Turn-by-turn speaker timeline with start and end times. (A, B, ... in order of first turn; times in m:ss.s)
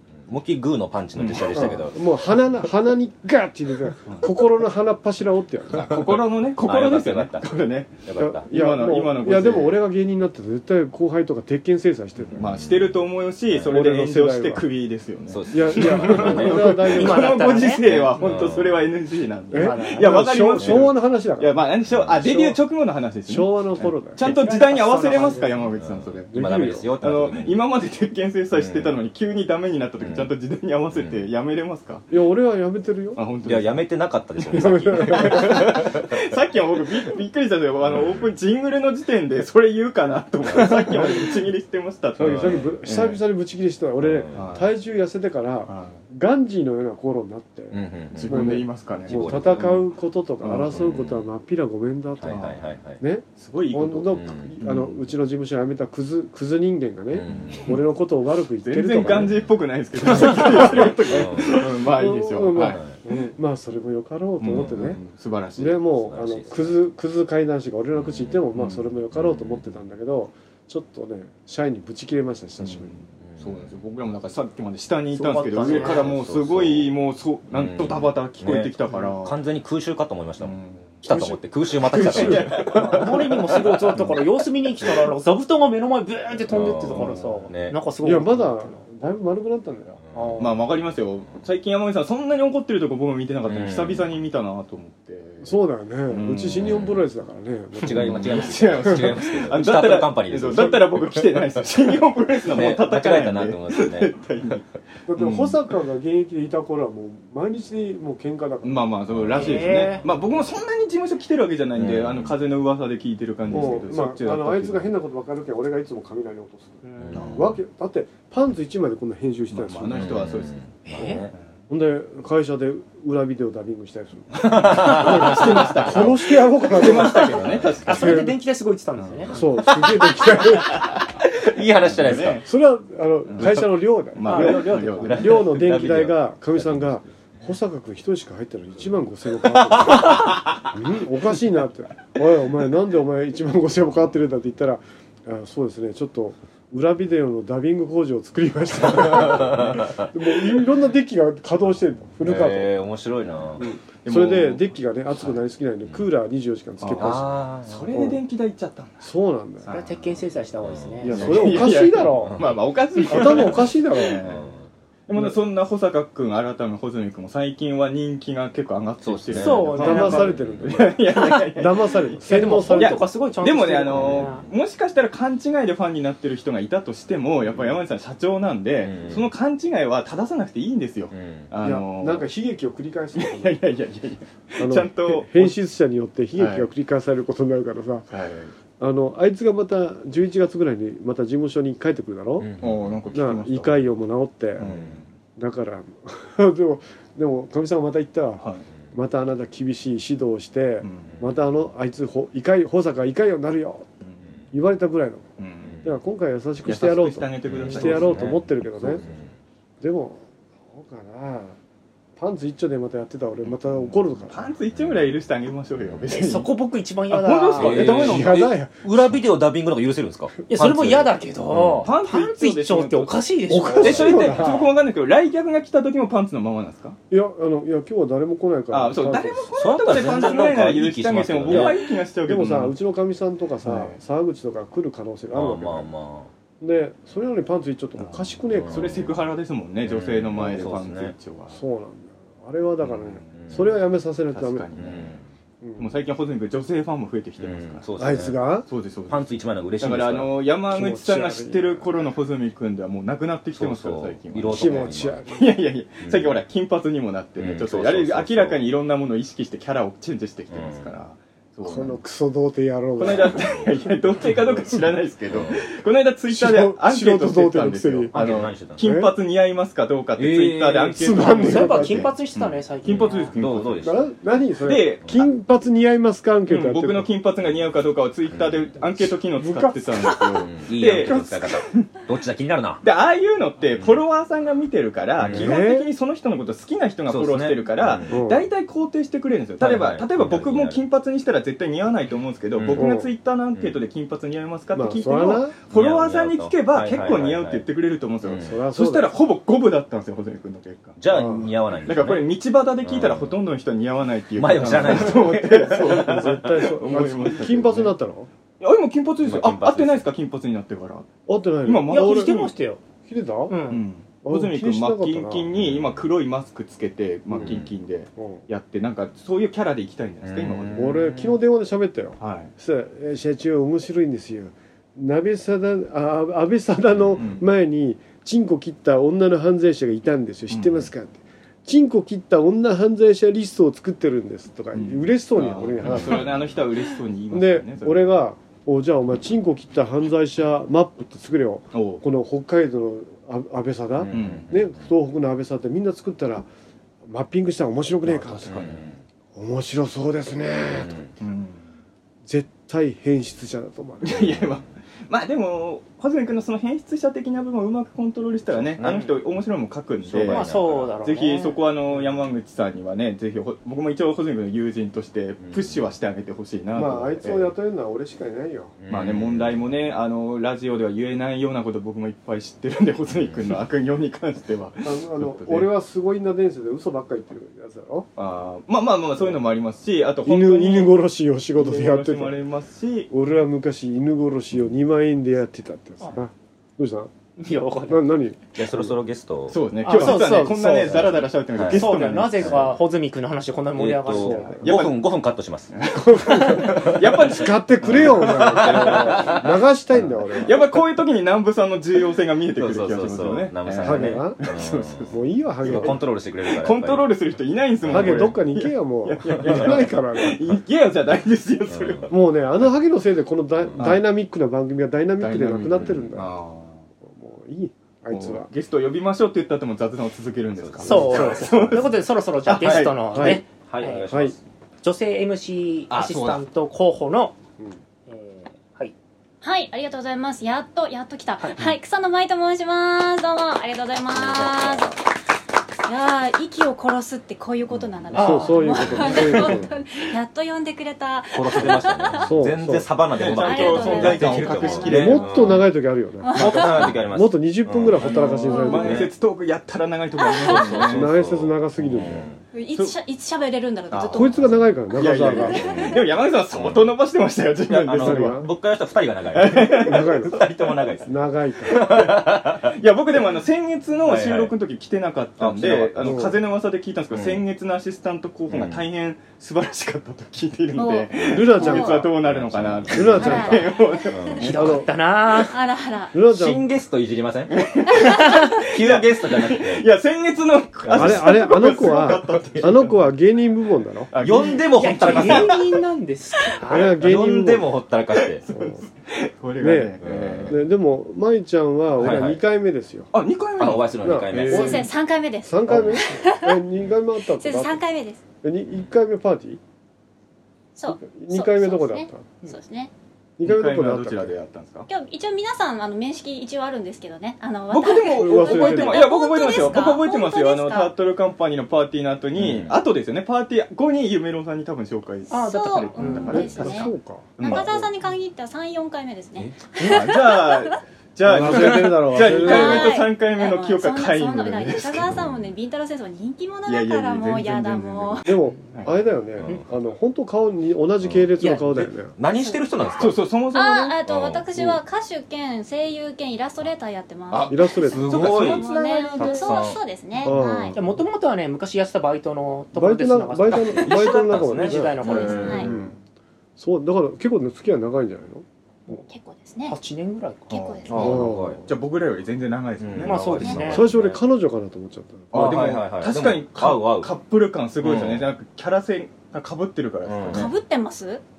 0:00.2-0:02.1 A
0:01.2-0:01.8 B
0:01.5-0:06.0 C
0:05.7-0:09.8 B
0:06.6-0:07.5 A
0:08.0-0:08.4 A
0:08.2-0:12.6 C
0:12.3-0:26.3 B
0:12.4-0:13.0 A
0:13.6-0:14.6 C
0:15.3-0:16.8 A
0:15.5-0:18.4 C
0:16.9-0:17.8 D
0:17.9-0:18.8 A
0:19.5-0:22.6 C
0:19.5-0:20.2 D
0:20.6-0:20.9 A
0:21.9-0:22.1 A
0:23.3-0:25.5 C
0:24.2-0:25.5 D
0:25.8-0:27.6 A
0:26.3-0:26.9 C
0:27.0-0:32.0 B
0:28.5-0:29.0 A
0:30.0-0:30.3 A
0:30.9-0:31.3 A
0:32.1-0:33.2 C
0:33.1-0:33.8 B
0:33.4-0:36.2 A
0:34.5-0:35.8 C
0:34.5-0:43.2 B
0:40.5-0:40.8 A
0:40.6-0:41.4 C
0:42.2-0:59.4 C
0:44.0-0:44.5 A
0:44.3-0:44.7 B
0:45.6-0:46.0 B
0:47.7-0:49.8 A
0:48.1-0:49.7 B
0:50.4-0:50.8 B
0:50.5-0:51.3 A
0:52.2-0:53.0 A
0:52.2-0:52.6 B
0:53.4-0:54.9 B
0:54.1-0:54.8 A
0:57.1-0:57.8 A
0:57.3-0:57.6 B
0:58.6-1:03.3 B
0:59.0-0:59.5 A
1:00.0-1:05.0 C
1:00.1-1:01.6 A
1:02.6-1:03.0 A
1:04.4-1:05.8 B
1:05.6-1:13.0 C
1:06.0-1:06.8 A
1:08.0-1:08.4 A
1:08.5-1:08.9 B
1:09.1-1:09.8 A
1:12.6-1:19.4 B
1:13.3-1:13.7 A
1:15.1-1:16.1 D
1:15.5-1:16.9 A
1:17.5-1:24.0 A
1:20.4-1:21.0 B
1:21.9-1:23.1 B
1:21.9-1:28.8 D
1:26.5-1:27.8 A
1:26.9-1:27.5 B
1:28.0-1:30.7 C
1:30.4-1:36.8 B
1:33.4-1:34.1 A
1:35.4-1:39.2 C
1:36.5-1:37.0 A
1:37.8-1:40.8 A
1:37.9-1:45.6 B
1:42.5-1:44.1 A
1:45.1-1:48.9 C
1:48.6-1:54.9 B
1:49.1-1:49.6 A
1:49.3-1:50.0 D
1:51.7-1:52.3 A
1:53.5-1:56.8 C
1:56.8-1:57.2 D
1:57.0-1:57.5 A
1:57.1-1:57.5 B
1:57.3-2:00.2 C
1:59.5-2:00.6 B
1:59.9-2:01.3 A
2:00.8-2:01.3 D
2:01.7-2:08.4 C
2:04.4-2:08.3 B
2:04.5-2:06.2 A
2:06.8-2:08.0 A
2:07.8-2:09.4 D
2:09.0-2:09.4 B
2:09.3-2:11.0 C
2:09.8-2:12.4 A
2:11.8-2:12.4 B
2:12.4-2:32.8 C
2:13.3-2:15.8 B
2:14.2-2:14.8 D
2:14.3-2:17.0 A
2:19.6-2:20.5 A
2:28.8-2:30.0 A
2:32.2-2:33.7 A
2:33.6-2:37.4 C
2:34.0-2:34.8 B
2:35.2-2:36.0 A
2:36.8-2:39.0 B
2:37.0-2:38.0 A
2:37.9-2:38.2 C
2:39.0-2:39.7 C
2:39.7-2:41.2 D
2:40.6-2:42.5 A
2:41.0-2:42.4 C
2:41.1-2:44.5 B
2:43.0-2:44.2 C
2:44.2-2:44.6 A
2:45.1-2:52.2 B
2:49.0-2:50.7 A
2:49.3-2:50.3 D
2:49.8-2:53.1 C
2:52.3-2:54.4 D
2:52.8-3:02.3 B
2:53.9-2:54.5 A
2:58.8-2:59.3 A
3:01.1-3:01.5 A
3:01.6-3:03.6 C
3:03.2-3:05.5 B
3:04.6-3:08.0 C
3:06.3-3:06.7 B
3:08.1-3:08.5 B
3:08.8-3:12.5 C
3:12.4-3:13.0 A
3:12.6-3:13.9 B
3:13.1-3:14.8 C
3:14.6-3:15.1 B
3:14.6-3:15.0 A
3:15.4-3:23.9 C
3:18.4-3:18.6 B
3:20.8-3:21.2 B
3:24.5-3:25.2 C
3:25.4-3:25.8 B
3:25.6-3:26.0 A
3:25.8-3:29.0 C
3:26.6-3:29.0 B
3:27.4-3:29.3 A
3:29.8-3:31.6 C
3:32.2-3:34.5 C
3:34.3-3:36.5 B
3:34.7-3:35.0 A
3:35.8-3:36.1 A
3:36.1-3:38.0 D
3:37.1-3:39.1 C
3:37.2-3:38.6 B
3:37.6-3:41.9 A
3:40.5-3:44.2 D
3:41.8-3:43.2 B
3:43.5-3:44.7 C
3:43.8-3:47.0 B
3:43.8-3:44.4 A
3:47.1-3:49.5 C
3:48.7-3:52.8 B
3:49.5-3:51.8 A
3:51.5-3:55.9 C
3:53.6-3:54.0 B
3:55.3-3:56.3 A
3:56.6-3:59.1 C
3:58.0-3:59.1 A
3:58.7-4:01.6 B
3:59.8-4:01.1 A
4:01.5-4:04.6 C
4:02.8-4:03.3 B
4:03.3-4:03.7 A
4:04.3-4:05.1 B
4:04.8-4:05.2 A
4:05.6-4:06.0 C
4:05.8-4:07.8 B
4:07.4-4:08.4 A
4:08.0-4:08.7 C
4:08.7-4:09.3 B
4:09.1-4:10.3 A
4:09.8-4:22.0 B
4:10.7-4:12.1 C
4:13.5-4:15.2 A
4:14.5-4:15.5 C
4:16.0-4:16.4 A
4:17.4-4:18.6 A
4:20.5-4:20.9 A
4:21.6-4:23.6 C
4:23.0-4:33.8 B
4:24.2-4:24.9 C
4:25.3-4:25.6 A
4:26.3-4:28.2 C
4:28.1-4:28.8 A
4:28.8-4:29.1 C
4:30.2-4:31.3 A
4:30.9-4:32.1 C
4:31.2-4:33.4 D
4:32.8-4:34.1 A
4:33.8-4:37.1 C
4:34.6-4:35.1 B
4:36.4-4:41.9 B
4:38.3-4:38.7 A
4:39.4-4:40.4 C
4:40.4-4:42.8 A
4:42.8-5:07.9 B
4:43.8-4:44.0 A
4:45.2-4:45.6 A
4:45.3-4:45.9 C
4:47.1-4:48.1 A
4:48.1-4:48.5 C
4:49.6-4:50.8 A
4:52.5-4:52.9 A
4:52.7-4:53.1 C
4:54.7-4:55.5 C
4:55.7-4:57.7 A
4:58.2-4:58.5 A
4:58.4-4:59.2 C
5:01.0-5:02.3 A
5:02.8-5:03.4 A
5:04.4-5:06.5 A
5:04.7-5:08.3 C
5:08.6-5:11.1 B
5:09.2-5:10.0 A
5:11.3-5:12.5 C
5:11.6-5:12.5 B
5:11.9-5:12.8 D
5:13.0-5:13.6 C
5:13.5-5:13.8 D
5:13.7-5:20.8 B
5:14.2-5:15.5 C
5:15.5-5:16.0 A
5:17.3-5:17.6 C
5:17.4-5:17.7 A
5:20.2-5:21.4 A
5:20.7-5:36.5 C
5:22.2-5:22.5 B
5:27.2-5:27.5 B
5:30.5-5:30.9 B
5:34.7-5:38.2 B
5:35.8-5:36.3 A
5:37.3-5:46.5 C
5:41.7-5:42.0 B
5:44.0-5:44.8 A
5:44.1-5:44.5 B
5:47.1-5:48.8 C
5:48.0-5:49.0 A
5:49.3-5:51.0 C
5:50.7-5:51.1 A
5:51.2-5:51.6 B
5:52.2-5:54.3 C
5:54.0-6:07.5 B
5:54.1-5:54.6 A
5:58.5-5:59.1 A
5:58.8-5:59.1 D
6:00.0-6:00.9 A
6:00.3-6:01.6 D
6:05.4-6:05.8 A
6:06.7-6:08.8 C
6:08.8-6:09.6 A
6:08.9-6:15.7 B
6:13.1-6:13.6 A
6:14.8-6:18.1 C
6:18.2-6:20.9 B
6:20.2-6:22.4 C
6:21.6-6:23.1 B
6:23.1-6:27.1 C
6:27.4-6:28.0 D
6:27.9-6:28.9 C
6:28.5-6:29.6 A
6:29.5-6:32.6 B
6:29.8-6:31.0 D
6:29.9-6:31.2 C
6:30.7-6:32.7 A
6:31.7-6:34.5 D
6:33.8-6:35.7 A
6:34.2-6:34.8 C
6:34.2-6:35.0 B
6:35.7-6:39.6 B
6:35.9-6:40.6 C
6:36.5-6:37.1 A
6:37.8-6:40.0 A
6:40.4-6:52.1 B
6:42.6-6:45.1 A
6:43.8-6:44.4 C
6:45.1-6:46.0 C
6:45.6-6:47.1 A
6:47.8-6:48.4 A
6:47.9-6:50.5 C
6:49.4-6:49.8 A
6:51.7-6:52.1 A
6:52.1-6:56.3 C
6:53.6-6:53.9 A
6:53.8-6:54.0 B
6:55.2-6:56.8 B
6:57.0-6:58.5 C
6:58.1-7:01.9 B
7:00.6-7:01.6 A
7:00.8-7:04.1 D
7:00.9-7:01.7 C
7:02.4-7:03.0 B
7:03.1-7:03.4 C
7:03.1-7:04.4 A
7:04.0-7:04.3 C
7:04.8-7:07.4 D
7:05.9-7:06.4 B
7:08.1-7:08.9 D
7:09.4-7:15.0 E
7:14.1-7:14.9 A
7:15.8-7:22.3 E
7:18.1-7:19.0 D
7:18.1-7:19.7 C
7:21.3-7:25.6 A
7:22.2-7:22.9 C
7:23.1-7:25.6 B
7:23.2-7:25.3 E
7:24.8-7:29.1 C
7:26.2-7:26.9 E
7:26.4-7:29.1 A
7:28.0-7:31.1 B
7:28.2-7:29.0 E
7:30.2-7:30.9 E
7:30.4-7:32.4 A
7:30.8-7:32.4 C
7:32.5-7:34.5 E
7:33.9-7:34.4 B
7:34.1-7:35.6 C
7:34.9-7:38.4 B
7:35.3-7:36.1 E
7:35.3-7:36.0 A
7:36.5-7:36.9 A
7:37.7-7:42.8 A
7:38.0-7:38.5 C
7:39.3-7:40.8 B
7:39.6-7:40.4 C
7:41.0-7:42.1 C
7:41.8-7:42.1 B
7:42.6-7:54.7 B
7:44.0-7:44.5 A
7:45.4-7:46.3 A
7:46.0-7:46.4 C
7:47.1-7:47.4 A
7:48.5-7:48.8 A
7:50.7-7:52.1 E
7:51.2-7:52.1 C
7:52.2-7:54.5 A
7:52.9-7:53.7 C
7:53.2-7:54.5 E
7:54.4-7:55.5 D
7:54.5-7:54.9 C
7:55.3-7:56.2 E
7:56.1-7:56.7 C
7:56.2-7:59.9 A
7:57.5-8:03.0 B
7:58.0-7:58.4 E
8:00.8-8:02.8 A
8:00.9-8:04.1 C
8:04.1-8:05.6 B
8:04.2-8:05.6 A
8:04.7-8:06.8 D
8:06.6-8:07.7 C
8:06.6-8:08.4 A
8:08.1-8:10.6 B
8:08.5-8:08.8 C
8:09.6-8:13.1 C
8:10.0-8:10.6 A
8:12.0-8:12.4 A
8:13.1-8:14.9 B
8:13.6-8:14.8 A
8:14.0-8:14.9 C
8:14.5-8:16.6 E
8:15.4-8:17.8 C
8:15.7-8:16.0 A
8:17.2-8:18.2 E
8:18.4-8:19.6 C
8:20.8-8:22.9 E
8:20.9-8:22.3 C
8:23.4-8:24.3 C
8:23.4-8:24.9 B
8:24.9-8:30.9 E
8:27.7-8:37.7 B
8:28.2-8:29.0 C
8:32.4-8:32.8 A
8:35.3-8:40.8 E
8:35.3-8:36.7 D
8:36.3-8:37.6 C
8:37.5-8:37.8 D
8:39.8-8:45.2 B
8:41.2-8:43.0 C
8:42.2-8:48.4 E
8:45.1-8:45.5 A
8:46.6-8:48.9 B
8:48.2-8:52.2 C
8:51.0-8:53.2 A
8:51.4-8:51.6 D
8:52.3-8:52.6 E
8:53.0-8:54.0 B
8:53.5-9:00.8 E
8:54.1-8:54.4 A
8:57.3-8:59.6 B
8:57.5-8:58.5 C
8:57.9-8:59.8 A
9:00.2-9:00.8 C
9:00.7-9:05.5 D
9:02.7-9:06.0 C
9:03.5-9:05.7 A
9:05.0-9:05.9 B
9:05.1-9:05.7 E
9:06.6-9:09.0 C
9:08.9-9:09.8 E
9:09.7-9:10.5 D
9:10.5-9:11.2 E
9:10.5-9:13.7 B
9:10.9-9:11.6 A
9:10.9-9:11.7 C
9:12.8-9:14.2 A
9:13.0-9:13.9 D
9:13.4-9:13.7 E
9:13.6-9:15.6 C
9:15.3-9:20.5 B
9:15.3-9:17.1 A
9:17.8-9:18.3 A
9:20.0-9:20.5 A
9:20.3-9:21.2 E